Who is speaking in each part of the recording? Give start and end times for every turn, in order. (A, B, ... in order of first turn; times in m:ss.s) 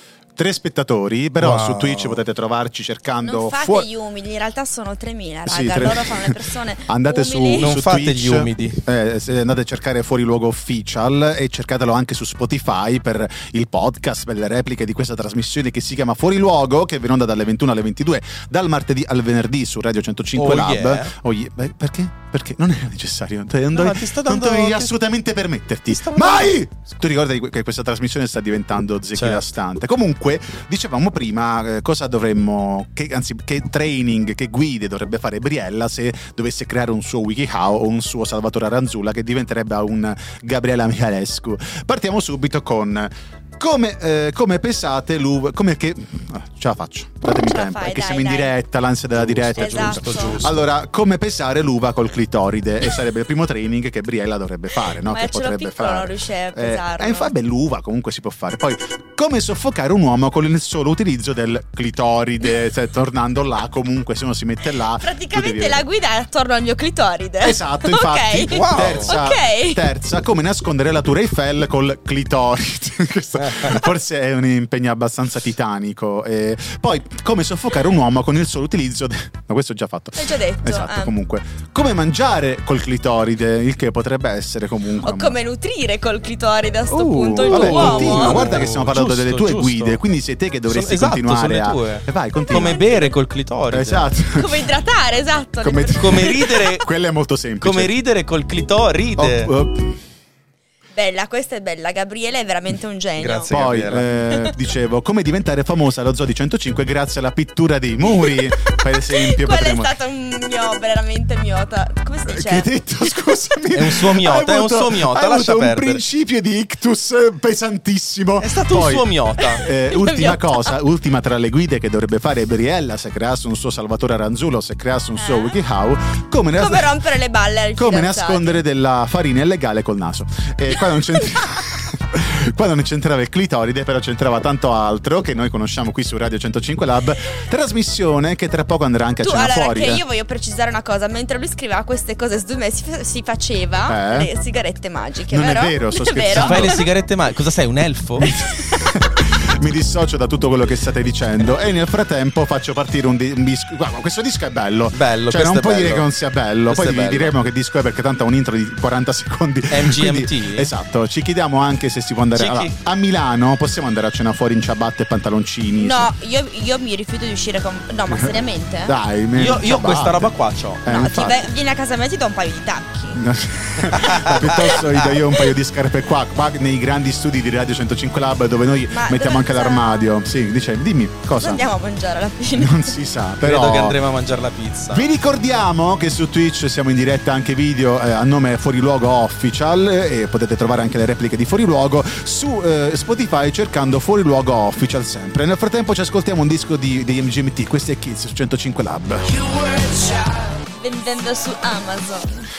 0:00.4-0:03.9 A
0:01.4-0:02.2 B
0:03.2-0:07.7 C
0:05.4-1:05.8 A
0:07.5-0:08.8 B
0:20.4-0:21.1 B
0:23.7-0:25.0 B
0:25.9-0:26.6 B
0:29.2-0:29.4 B
0:47.4-0:48.5 C
0:49.1-0:50.6 B
0:49.5-0:50.4 C
0:55.0-0:57.3 C
1:05.0-1:09.8 C
1:07.4-1:25.4 A
1:08.5-1:09.1 B
1:13.4-1:13.8 B
1:20.2-1:21.1 C
1:25.0-1:28.6 C
1:26.9-1:32.8 A
1:27.4-1:30.0 B
1:30.7-1:34.1 B
1:32.5-1:33.1 C
1:33.7-1:34.7 A
1:34.3-1:36.7 C
1:35.6-1:37.9 A
1:36.0-1:36.8 B
1:37.6-1:39.5 B
1:39.2-1:40.0 A
1:40.9-1:43.5 C
1:43.2-1:44.0 B
1:43.5-1:49.9 A
1:48.0-1:53.3 C
1:52.2-2:07.0 A
1:53.7-1:56.0 B
1:58.4-1:59.6 B
1:59.4-2:00.7 C
2:05.2-2:05.6 C
2:06.5-2:08.6 C
2:07.8-2:20.0 A
2:19.2-2:26.8 C
2:23.9-2:24.3 A
2:25.3-2:26.8 A
2:26.3-2:28.3 B
2:28.2-2:28.9 C
2:28.7-2:46.1 A
2:34.9-2:36.1 B
2:36.7-2:37.3 B
2:39.7-2:40.7 B
2:42.3-2:42.7 B
2:45.8-2:48.9 C
2:48.1-2:50.3 A
2:49.4-2:50.8 B
2:50.8-2:51.4 A
2:50.8-2:53.2 C
2:53.1-3:01.6 A
2:53.9-2:54.4 B
2:58.9-3:00.1 C
3:01.4-3:03.0 C
3:02.6-3:04.0 A
3:03.4-3:05.1 B
3:04.9-3:19.8 A
3:20.7-3:22.5 C